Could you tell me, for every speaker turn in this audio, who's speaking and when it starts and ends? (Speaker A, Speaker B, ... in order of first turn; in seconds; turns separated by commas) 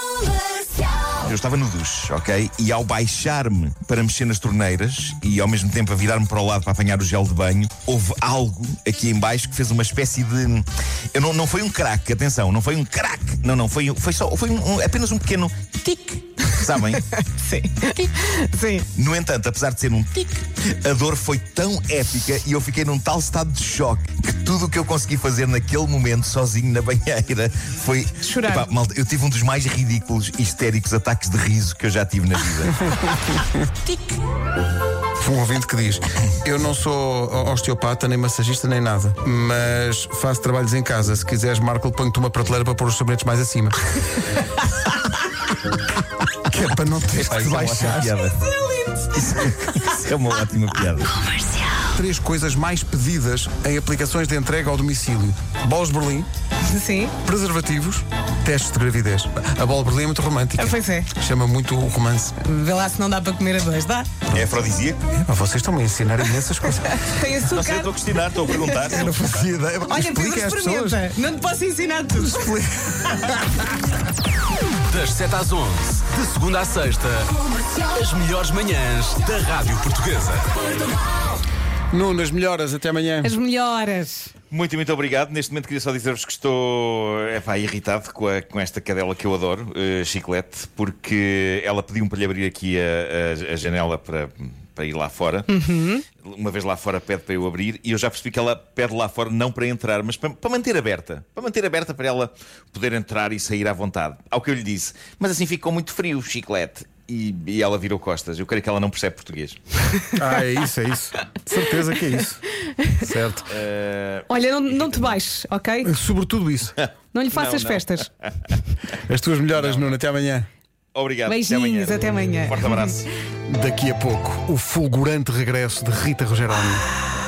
Speaker A: 1.2-17.0, Speaker B: 17.0-18.9, Speaker A: 18.9-32.9, Speaker B: 28.2-28.7, Speaker C: 35.2-43.8, Speaker C: 46.5-48.1, Speaker A: 47.2-48.4, Speaker A: 49.1-51.1, Speaker C: 51.9-56.3, Speaker B: 56.7-57.1, Speaker C: 57.2-62.3, Speaker B: 60.5-61.1, Speaker B: 62.4-64.1, Speaker A: 64.3-65.0, Speaker C: 65.1-66.9, Speaker B: 66.8-69.1, Speaker A: 67.5-69.5, Speaker C: 68.9-71.0, Speaker B: 69.9-72.5, Speaker C: 72.2-73.7, Speaker D: 74.9-77.3, Speaker D: 77.9-80.5, Speaker C: 81.9-83.3, Speaker B: 83.2-84.3, Speaker A: 84.5-95.5, Speaker B: 95.5-96.0, Speaker A: 96.2-109.6, Speaker C: 110.2-113.5, Speaker A: 113.5-115.2, Speaker B: 114.3-115.9, Speaker C: 115.8-116.8, Speaker A: 116.8-118.0, Speaker B: 117.1-118.1, Speaker C: 119.0-120.5, Speaker A: 119.5-119.9, Speaker A: 120.9-123.1, Speaker B: 121.2-122.9, Speaker C: 123.5-126.8